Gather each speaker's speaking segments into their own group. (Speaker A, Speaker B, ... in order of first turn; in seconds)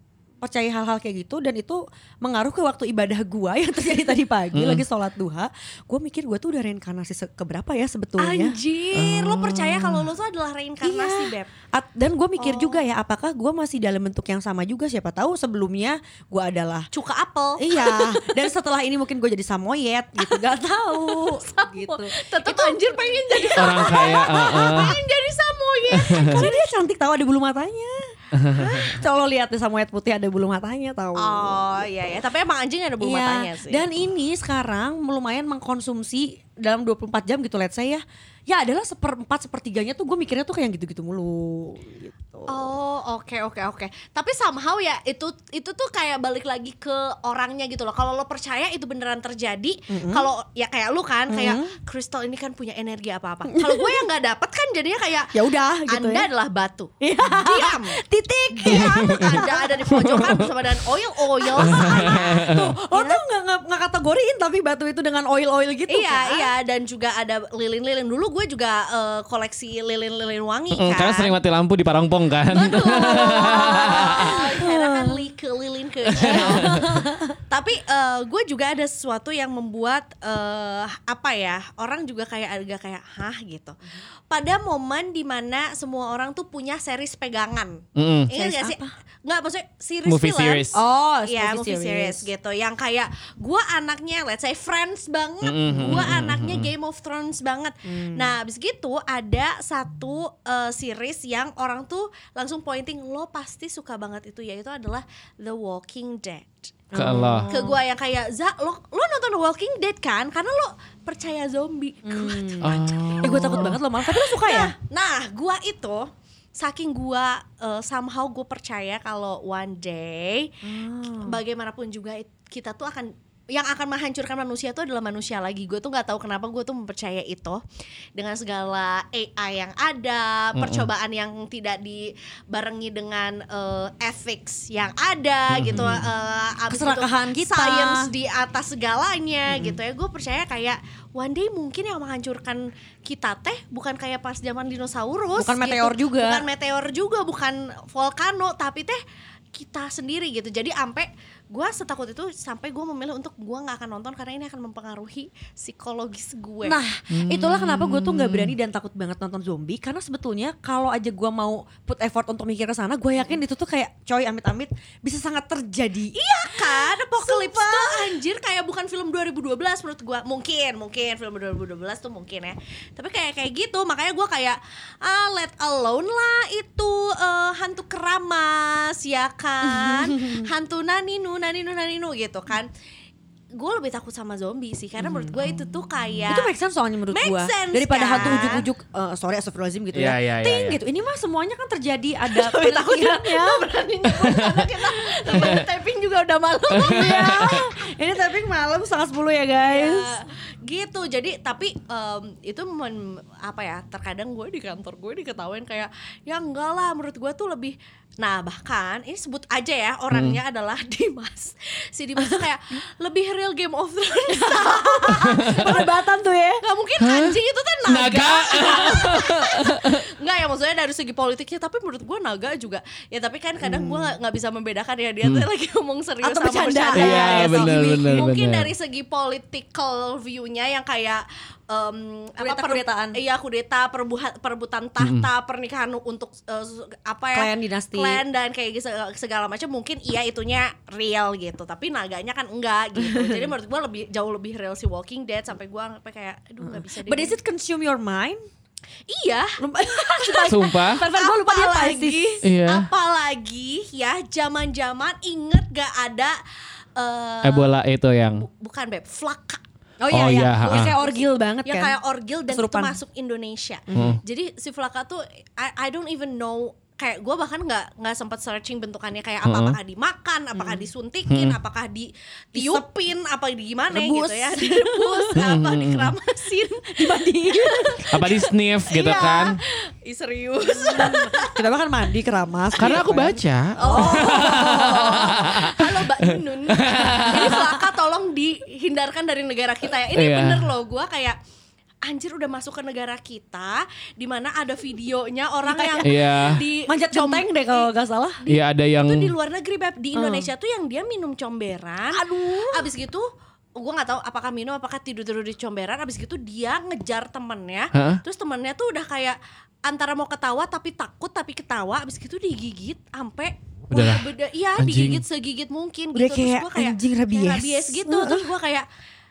Speaker A: 0.4-8.6, 10.8-16.9, 17.6-24.7, 26.1-31.6, 33.0-42.7, 49.9-50.3, 51.3-51.7, 53.5-54.0, 55.3-56.3, 57.0-60.5, 61.4-66.5, 72.7-75.3, 76.2-77.4, 88.3-88.9, 90.7-92.3, 97.9-98.3, 106.9-107.8, 112.0-114.8, 120.6-121.4, 136.7-138.1, 139.5-139.8, 145.3-146.4, 156.6-168.2, 179.6-180.5, 185.0-185.4, 186.3-195.6, 196.8-200.2, 214.3-216.6, 223.6-224.1, 226.2-228.2, 232.4-233.2, 237.3-238.2, 243.0-243.5, 246.6-248.4, 249.6-252.4, 260.0-261.9, 262.5-263.0, 263.9-264.2, 270.5-270.9, 272.6-272.9, 273.9-275.5, 276.9-278.2, 279.1-279.3, 280.7-285.5, 287.2-287.8, 295.6-298.4, 300.1-300.5, 302.1-302.9, 316.1-318.5
Speaker B: 4.5-4.8, 8.9-10.1, 23.6-25.0, 25.9-26.5, 28.3-29.0, 58.7-60.5, 61.6-62.6, 70.7-74.4, 76.2-76.8, 88.0-88.3, 90.1-90.8, 95.4-96.7, 107.0-107.5, 112.6-113.8, 130.6-130.9, 135.5-136.1, 157.1-158.5, 188.2-188.7, 189.9-190.8, 195.3-195.6, 196.8-197.7, 210.1-210.4, 215.2-215.7, 217.0-220.0, 226.9-228.7, 235.0-235.3, 250.5-251.0, 252.4-252.9, 257.4-258.4, 260.1-260.9, 263.9-264.2, 269.4-269.8, 271.3-271.6, 275.4-276.1, 278.1-279.6, 282.8-287.7, 290.1-290.7, 296.0-296.6, 298.5-299.3, 307.9-308.2, 313.9-315.2
Speaker C: 8.2-11.5, 12.4-12.8, 16.9-18.4, 20.9-26.7, 31.2-33.8, 42.5-55.4, 55.9-58.0, 58.5-63.2, 65.9-71.3, 72.5-83.8, 84.3-90.7, 91.3-106.7, 107.5-120.6, 121.2-127.6, 128.2-149.0, 149.5-156.8, 166.1-182.7, 183.6-186.5, 187.1-188.6, 192.3-197.5, 199.6-215.9, 216.6-247.4, 249.1-256.4, 257.0-257.7, 258.3-259.6, 260.6-278.3, 278.9-281.6, 283.8-291.4, 292.1-318.9